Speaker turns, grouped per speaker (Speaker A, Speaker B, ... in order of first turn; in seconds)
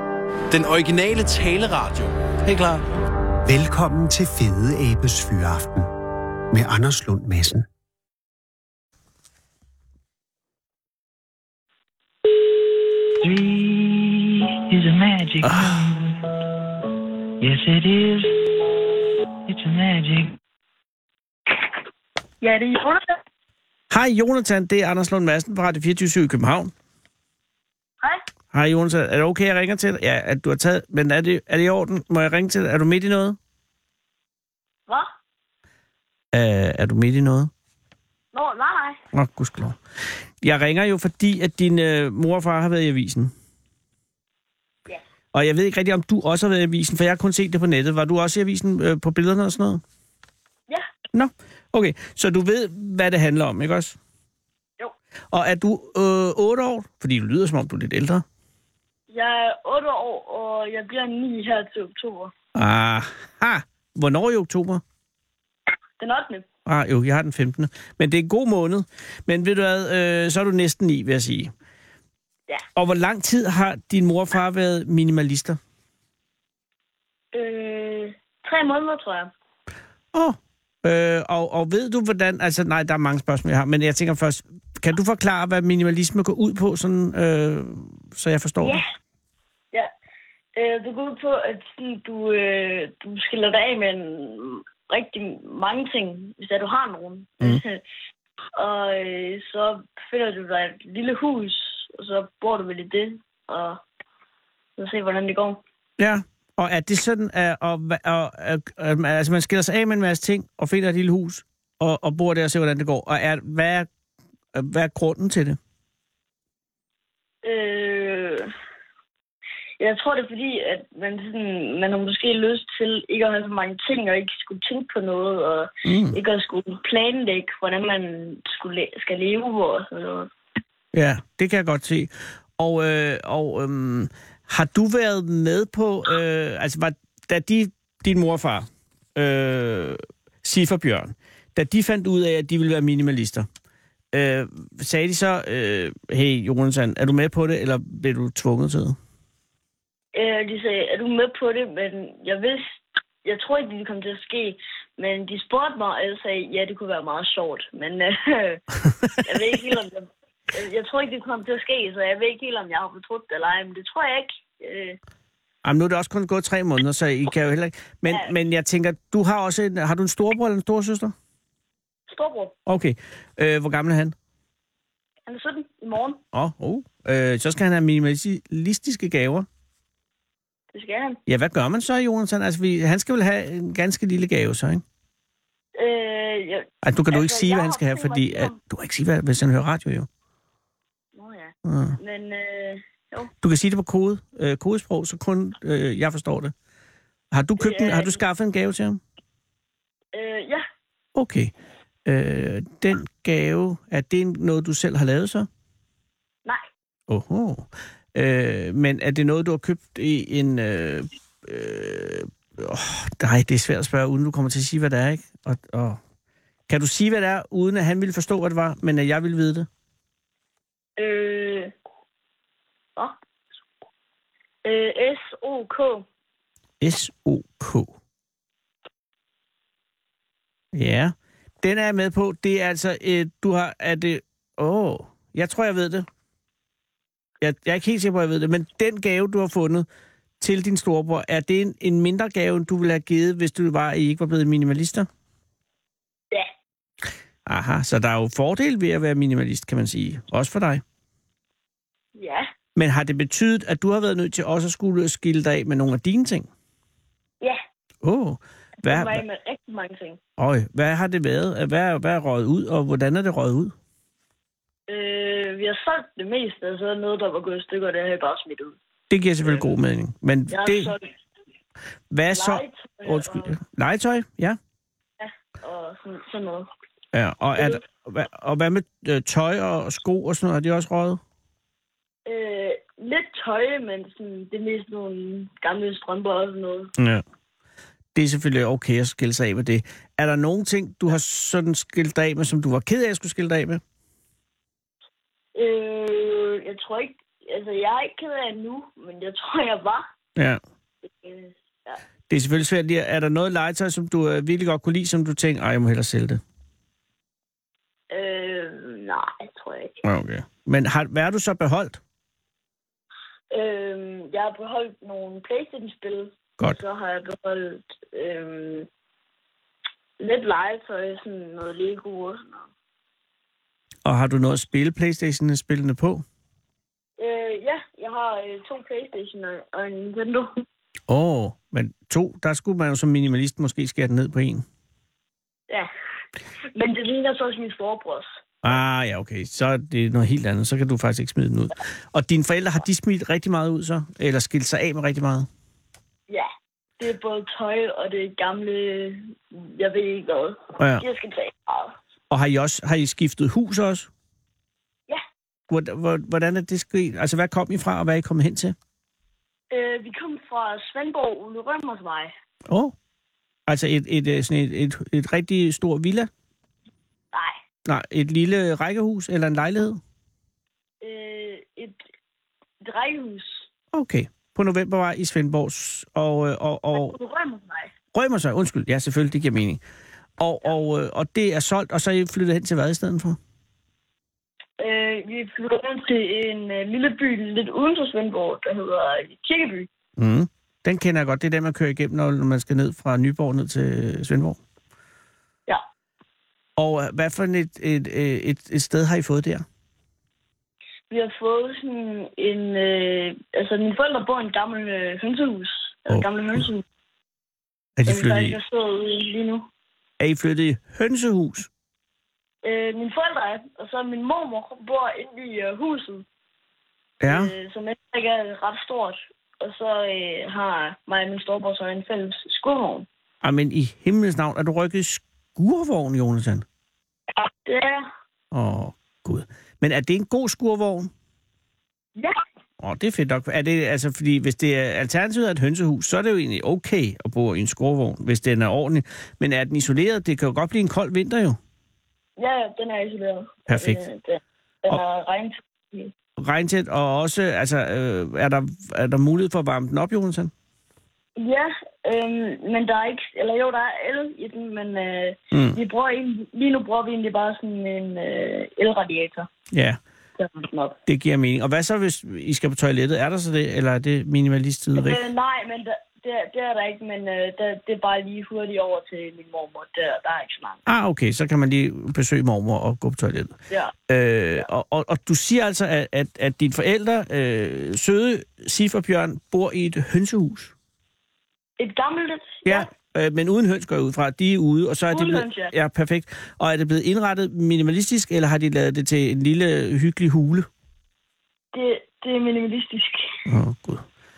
Speaker A: 0.5-2.8
Speaker B: 3.4-5.9, 6.5-7.7
Speaker C: 13.2-16.4, 17.4-18.5, 19.5-20.4
Speaker D: 15.4-15.8, 23.9-26.7, 28.5-33.4, 36.3-37.5, 39.1-39.8, 40.4-43.3, 45.3-49.8, 51.1-54.0, 55.3-58.2, 62.5-64.8, 66.7-71.5, 72.8-75.6, 80.1-88.8, 106.0-113.9, 114.5-115.6, 125.8-126.2, 130.9-143.5, 144.1-149.0, 165.6-171.1, 172.7-174.1, 176.3-179.5, 181.3-184.8, 186.8-190.1, 191.7-192.0, 193.4-196.5, 197.3-199.0, 201.1-201.5, 202.1-205.5, 207.1-216.0, 216.7-219.7, 226.8-227.9, 230.7-236.1, 237.4-239.9, 240.4-245.1, 247.4-250.8, 252.8-256.5, 258.0-259.2, 260.4-263.7, 269.1-270.9, 272.1-274.6, 277.1-281.2, 287.0-287.2, 288.1-293.8, 300.4-300.6, 302.3-306.4, 310.0-312.0, 324.0-326.2, 331.1-334.6, 338.6-345.5, 350.8-351.0, 352.3-354.1, 355.7-358.8, 362.7-362.9, 363.7-366.3, 367.8-370.0, 373.9-377.1, 378.1-379.8, 380.4-383.4, 390.2-394.6, 396.8-399.6, 406.1-406.6, 408.0-408.6, 410.2-411.7, 417.2-417.5, 423.4-426.6, 428.5-431.1, 432.8-441.6, 443.7-444.0, 446.4-450.5, 455.5-455.8, 459.7-460.0, 461.1-465.2, 470.9-473.5, 474.1-480.7, 482.6-490.7, 493.5-494.0
Speaker E: 22.4-23.2, 38.3-39.0, 59.1-62.3, 66.0-66.5, 77.3-79.3, 88.6-88.9, 90.5-97.8, 98.5-103.8, 104.8-105.6, 117.4-118.5, 119.8-130.3, 150.1-165.0, 172.1-172.5, 175.3-176.2, 180.7-181.2, 185.8-188.6, 191.2-193.3, 197.6-198.2, 200.1-200.6, 221.0-221.7, 224.6-226.0, 252.2-252.5, 258.8-260.2, 264.9-268.8, 269.4-269.7, 270.5-271.0, 272.3-273.5, 275.2-276.7, 277.6-277.8, 282.2-286.9, 295.5-300.1, 301.0-302.0, 308.1-309.9, 313.5-318.9, 320.2-322.7, 327.2-330.6, 336.7-338.4, 346.3-351.9, 359.7-362.3, 367.3-367.6, 371.0-372.0, 372.8-373.7, 376.9-377.9, 384.8-389.9, 401.1-406.8, 408.1-409.7, 412.6-416.2, 417.2-423.1, 427.4-428.1, 432.1-432.4, 442.4-446.1, 451.4-459.5, 460.4-461.0, 465.0-470.8, 481.8-482.9, 485.1-485.7, 491.7-493.4